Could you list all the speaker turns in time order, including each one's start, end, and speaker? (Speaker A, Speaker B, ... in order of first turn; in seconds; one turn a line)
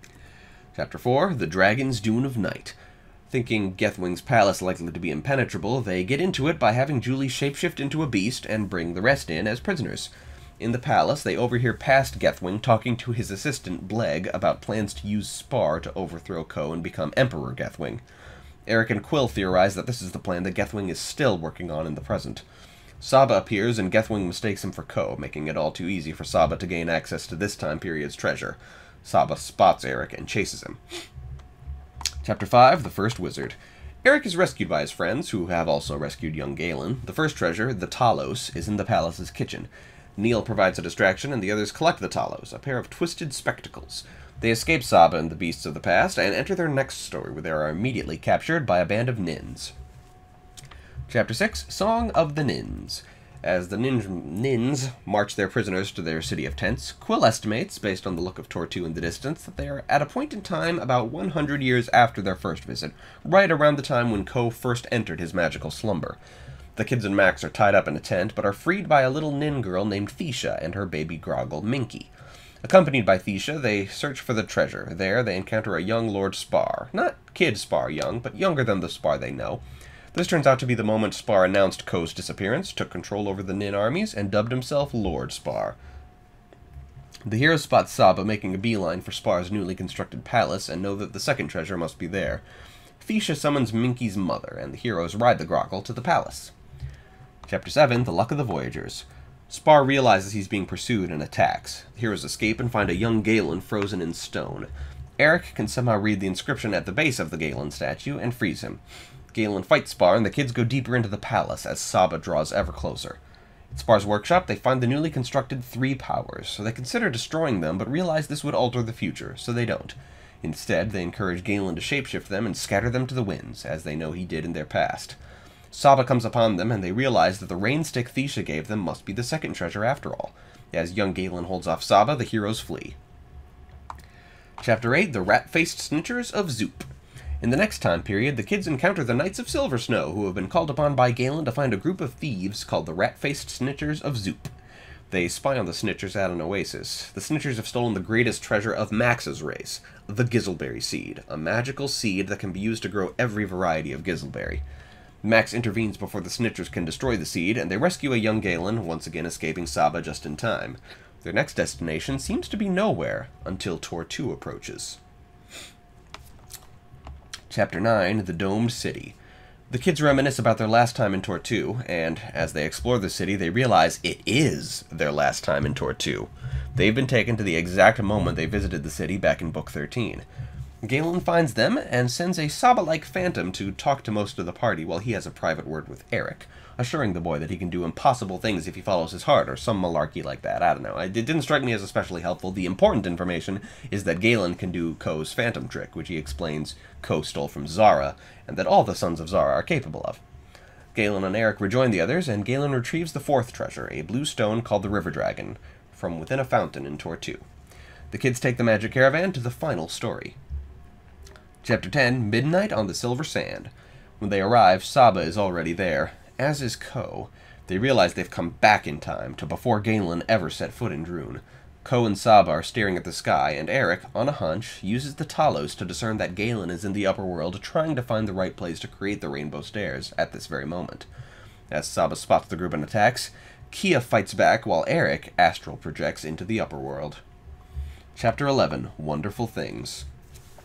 Speaker A: 0.7-2.8
Speaker A: 3.3-18.0
Speaker A: 18.7-22.4
Speaker A: 23.0-30.8
Speaker A: 32.2-49.7
Speaker A: 51.1-66.2
Speaker A: 66.8-72.1
Speaker A: 72.6-85.8
Speaker A: 87.2-92.4
Speaker A: 93.0-96.5
Speaker A: 97.5-108.8
Speaker A: 109.3-113.2
Speaker A: 113.7-125.2
Speaker A: 125.7-133.0
Speaker A: 134.6-136.9
Speaker A: 137.4-144.5
Speaker A: 145.1-154.6
Speaker A: 155.2-165.0
Speaker A: 167.5-169.1
Speaker A: 169.7-180.2
Speaker A: 180.8-200.2
Speaker A: 200.9-207.4
Speaker A: 208.1-210.3
Speaker A: 211.6-231.1
Speaker A: 231.7-237.2
Speaker A: 238.1-240.1